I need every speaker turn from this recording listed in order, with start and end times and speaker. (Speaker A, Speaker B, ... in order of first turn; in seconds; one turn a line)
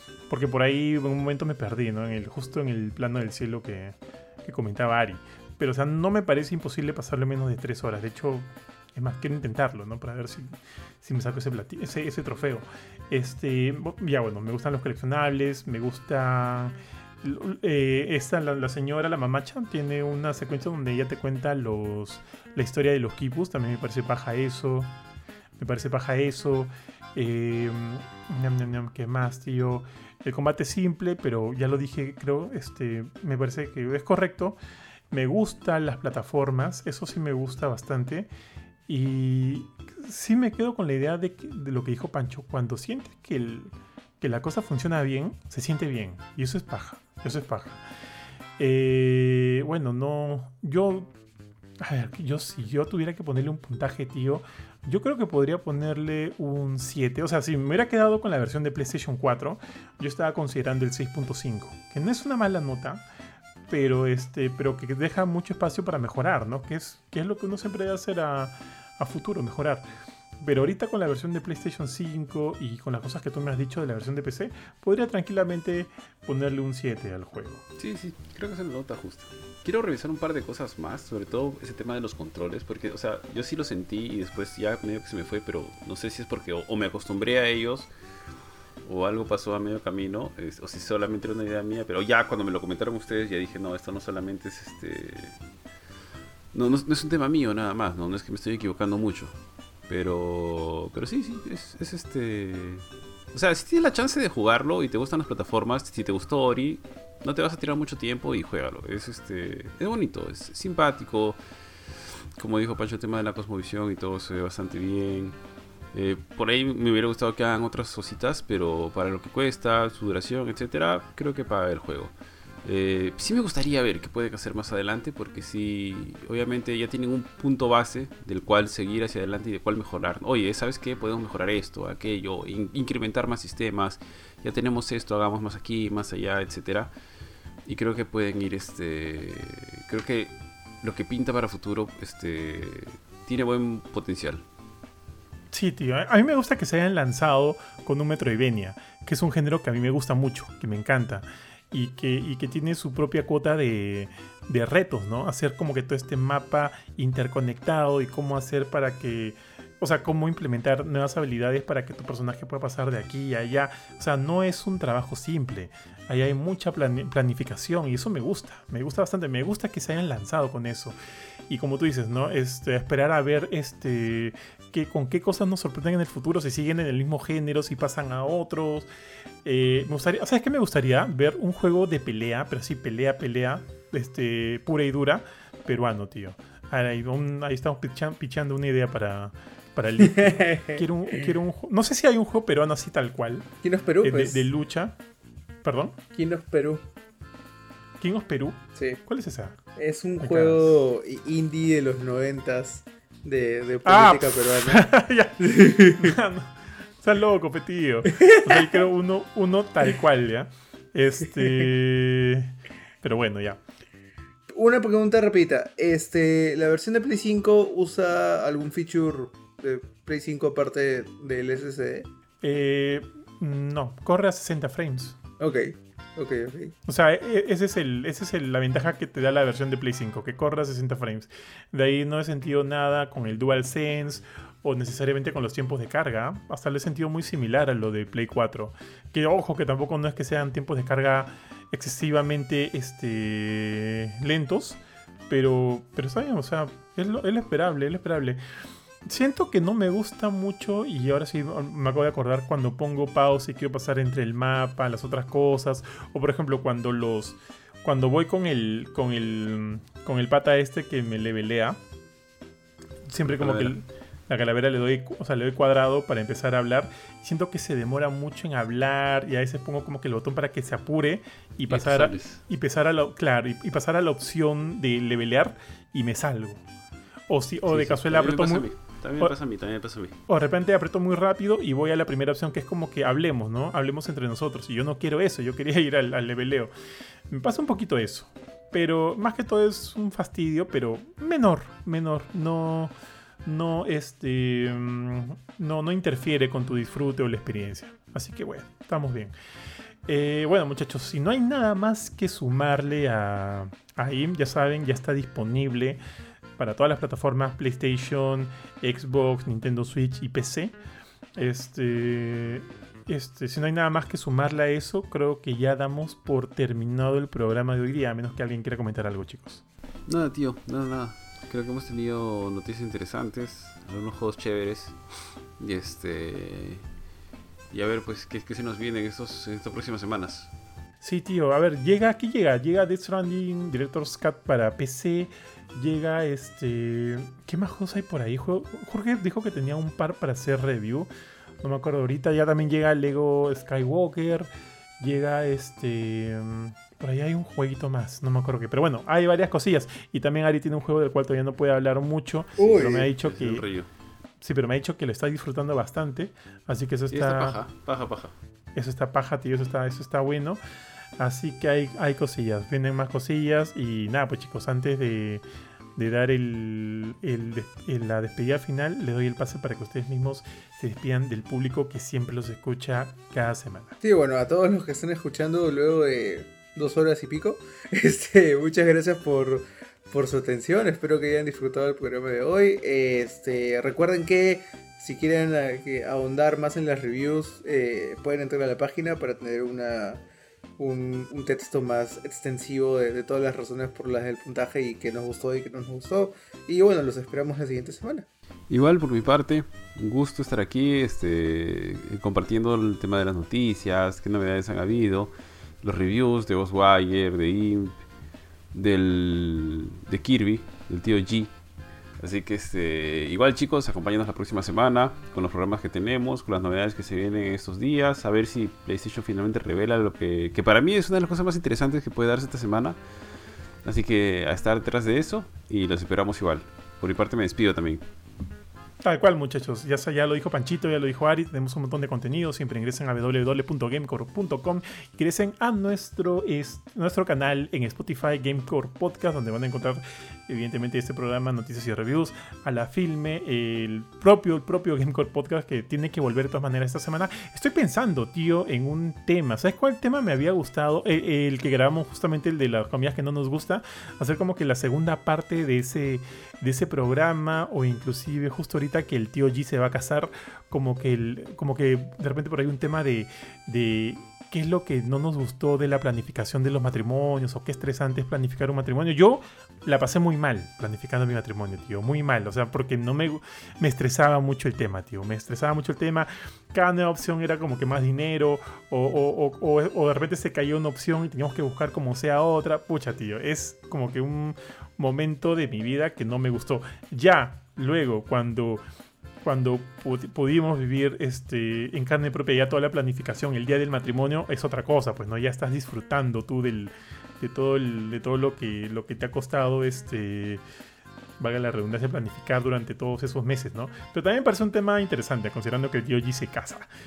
Speaker A: 0.3-24.9
Speaker A: 25.6-34.6
Speaker A: 35.1-38.3
Speaker A: 38.9-47.8
Speaker A: 48.6-51.1
Speaker A: 51.8-63.0
Speaker A: 63.7-69.8
Speaker A: 70.4-77.6
Speaker B: 77.8-87.9
Speaker B: 88.8-95.4
Speaker B: 96.5-99.4
Speaker B: 99.9-111.4
Speaker B: 112.4-115.3
Speaker B: 115.9-136.9
Speaker B: 137.7-144.4
Speaker A: 145.5-170.9
Speaker A: 171.5-178.9
Speaker A: 179.4-193.5
Speaker C: 190.0-191.2
Speaker C: 193.6-194.5
Speaker A: 194.0-195.0
Speaker A: 195.6-195.9
Speaker C: 196.1-196.8
Speaker A: 198.0-199.6
Speaker C: 198.8-199.0
Speaker C: 199.8-206.2
Speaker A: 200.2-200.8
Speaker A: 203.8-213.6
Speaker C: 208.1-208.8
Speaker C: 211.4-211.7
Speaker C: 214.5-222.1
Speaker A: 222.4-225.2
Speaker C: 225.4-226.7
Speaker A: 226.9-248.4
Speaker A: 249.1-261.8
Speaker A: 263.1-276.6
Speaker B: 263.2-263.7
Speaker B: 271.7-272.4
Speaker A: 277.3-278.7
Speaker B: 277.7-280.2
Speaker A: 280.3-286.7
Speaker A: 287.3-292.9
Speaker A: 293.4-299.3
Speaker A: 300.1-306.0
Speaker A: 306.6-310.7
Speaker A: 311.4-319.6
Speaker B: 320.1-325.0
Speaker B: 325.6-326.8
Speaker B: 327.7-330.5
Speaker A: 331.0-341.1
Speaker A: 341.6-344.5
Speaker A: 345.0-353.6
Speaker C: 352.6-353.1
Speaker B: 352.9-353.9
Speaker A: 354.4-357.6
Speaker B: 357.1-358.3
Speaker A: 358.8-360.6
Speaker A: 361.2-365.4
Speaker A: 366.0-373.9
Speaker C: 374.0-390.2
Speaker C: 390.8-398.2
Speaker B: 398.7-407.9
Speaker B: 408.7-411.5
Speaker B: 412.2-423.0
Speaker B: 423.8-428.0
Speaker A: 429.0-488.8
Speaker A: 489.4-500.6
Speaker A: 501.4-506.9